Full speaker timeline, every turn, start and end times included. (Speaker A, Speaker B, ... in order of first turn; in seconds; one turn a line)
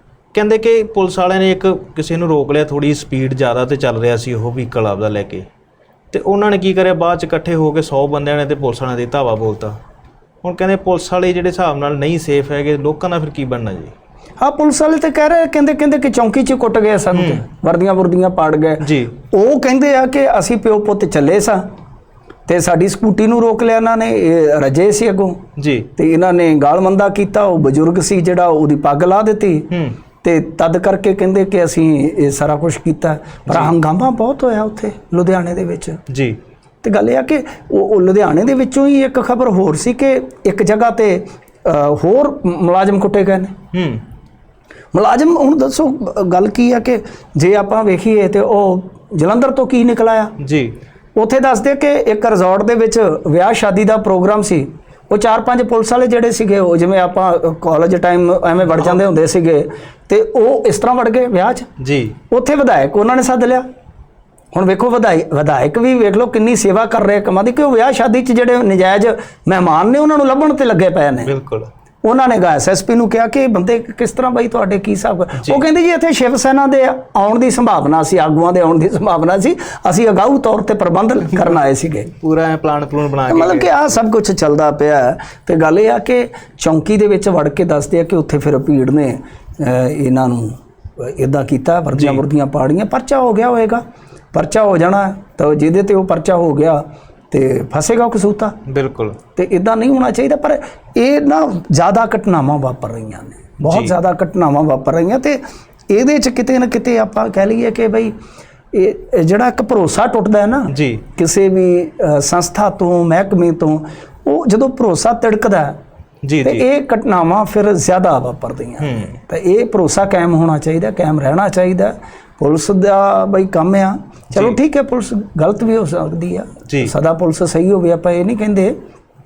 Speaker A: 0.3-5.4
Speaker A: 6.1-9.8
Speaker A: 10.4-13.9
Speaker B: 14.4-21.6
Speaker A: 17.1-17.4
Speaker A: 18.8-19.1
Speaker B: 22.5-25.4
Speaker A: 25.6-25.9
Speaker B: 25.9-29.7
Speaker A: 29.7-30.0
Speaker B: 30.2-36.0
Speaker A: 33.5-33.7
Speaker A: 36.1-36.4
Speaker B: 36.8-43.5
Speaker A: 43.7-44.0
Speaker B: 44.9-50.3
Speaker A: 50.4-50.7
Speaker B: 51.1-61.7
Speaker A: 61.8-62.2
Speaker B: 62.3-63.6
Speaker B: 64.5-71.3
Speaker A: 71.2-71.7
Speaker B: 72.0-82.1
Speaker A: 75.4-75.6
Speaker A: 82.1-84.0
Speaker B: 83.3-93.8
Speaker A: 91.9-92.2
Speaker B: 94.3-98.5
Speaker A: 98.7-99.2
Speaker B: 99.3-108.1
Speaker A: 103.6-103.9
Speaker B: 108.7-115.8
Speaker A: 110.7-111.0
Speaker A: 116.2-116.6
Speaker B: 116.4-128.7
Speaker A: 118.8-119.2
Speaker A: 124.3-124.6
Speaker A: 126.7-126.9